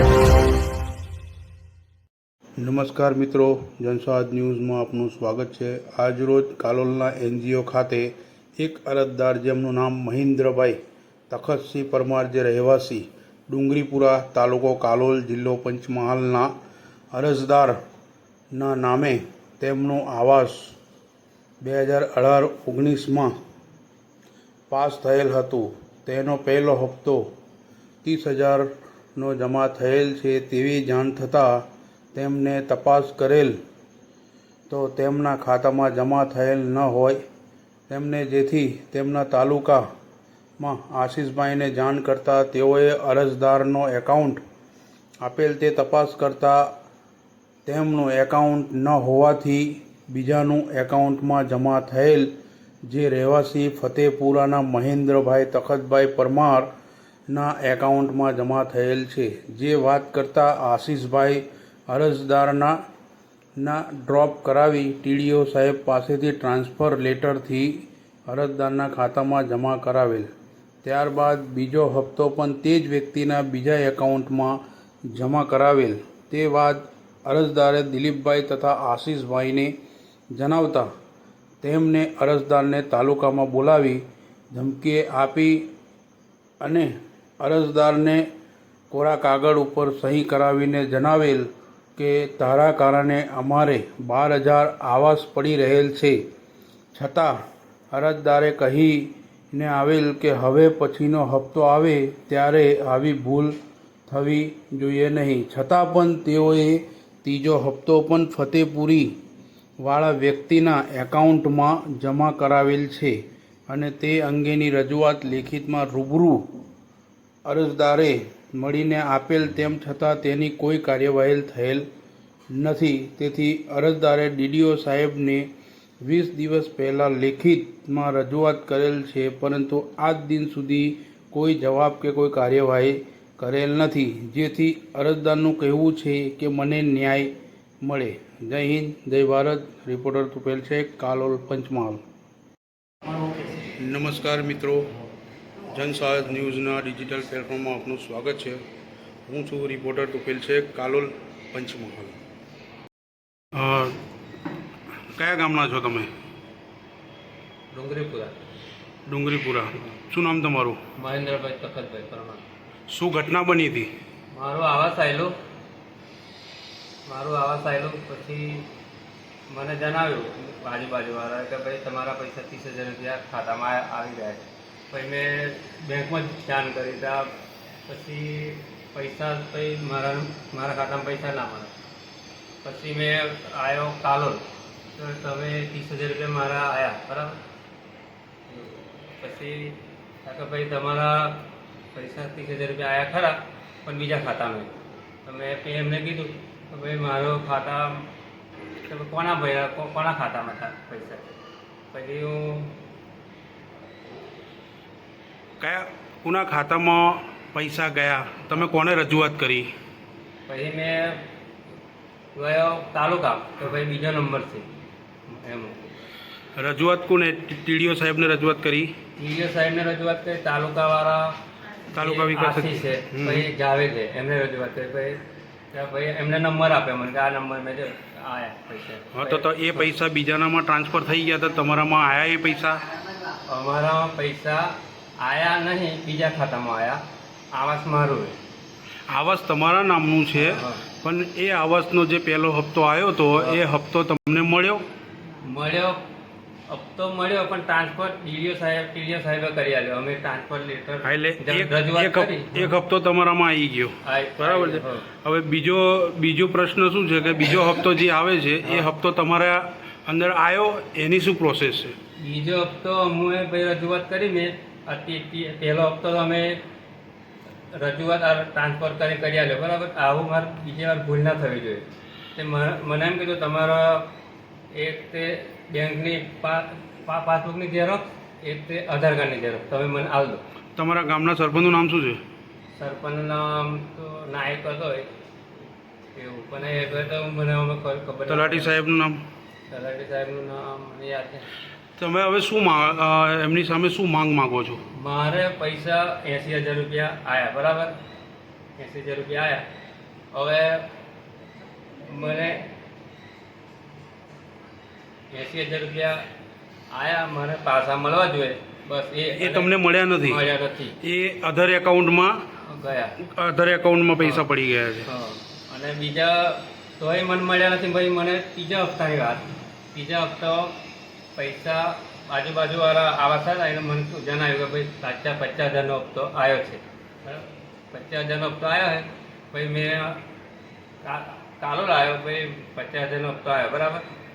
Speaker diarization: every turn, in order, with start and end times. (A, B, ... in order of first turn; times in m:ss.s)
0:02.6-0:16.5 A
0:17.1-0:17.8 A
0:18.5-0:20.7 A
0:21.6-0:23.4 A
0:24.7-0:27.3 A
0:28.0-0:33.6 A
0:34.7-0:37.2 A
0:37.9-0:39.8 A
0:40.6-0:44.4 A
0:45.2-0:46.7 A
0:47.6-0:52.3 A
0:52.8-0:56.7 A
0:57.3-1:02.8 A
1:03.6-1:10.3 A
1:10.8-1:19.7 A
1:20.3-1:20.9 A
1:21.6-1:25.6 A
1:26.6-1:28.2 A
1:28.9-1:36.2 A
1:36.9-1:37.3 A
1:37.9-1:43.5 A
1:44.1-1:49.1 A
1:49.8-1:53.2 A
1:53.7-1:56.5 A
1:57.4-2:01.9 A
2:02.5-2:05.5 A
2:06.0-2:22.0 A
2:23.6-2:24.9 A
2:25.7-2:28.6 A
2:29.3-2:32.2 A
2:33.5-2:34.0 A
2:35.1-2:36.1 A
2:37.7-2:38.3 B
2:39.1-2:40.8 A
2:40.9-2:42.4 B
2:42.9-2:43.9 A
2:44.3-2:45.4 B
2:47.0-2:48.7 B
2:49.5-2:57.3 B
2:57.8-3:01.7 B
3:02.6-3:04.4 B
3:04.9-3:07.4 B
3:08.5-3:18.1 B
3:18.9-3:21.3 B
3:21.9-3:22.8 B
3:25.6-3:29.7 A
3:30.5-3:31.3 B
3:32.3-3:34.7 B
3:35.3-3:35.9 B
3:36.6-3:38.9 A
3:39.2-3:41.4 B
3:41.9-3:43.5 A
3:41.9-3:49.9 B
3:49.1-3:52.8 A
3:53.3-3:57.0 B
3:57.5-3:58.4 B
3:59.1-4:04.8 A
4:00.3-4:00.8 B
4:05.4-4:06.0 B
4:06.7-4:12.7 B
4:11.0-4:22.0 A
4:14.0-4:15.1 B
4:22.2-4:26.6 B
4:27.7-4:34.1 B
4:34.7-4:40.4 B
4:40.8-4:42.2 A
4:42.7-4:45.1 B
4:46.1-4:48.8 B
4:48.3-4:49.2 A
4:49.7-4:51.5 B
4:52.0-4:54.8 A
4:54.9-4:58.0 B
4:58.8-4:59.6 B
5:00.3-5:00.9 B
5:02.0-5:02.7 B
5:05.3-5:06.2 B
5:06.9-5:11.0 B
5:09.3-5:10.4 A
5:11.0-5:12.4 A
5:12.6-5:13.2 B
5:13.2-5:15.1 A
5:14.2-5:14.4 B
5:15.0-5:20.8 B
5:21.3-5:30.2 B
5:31.0-5:34.0 B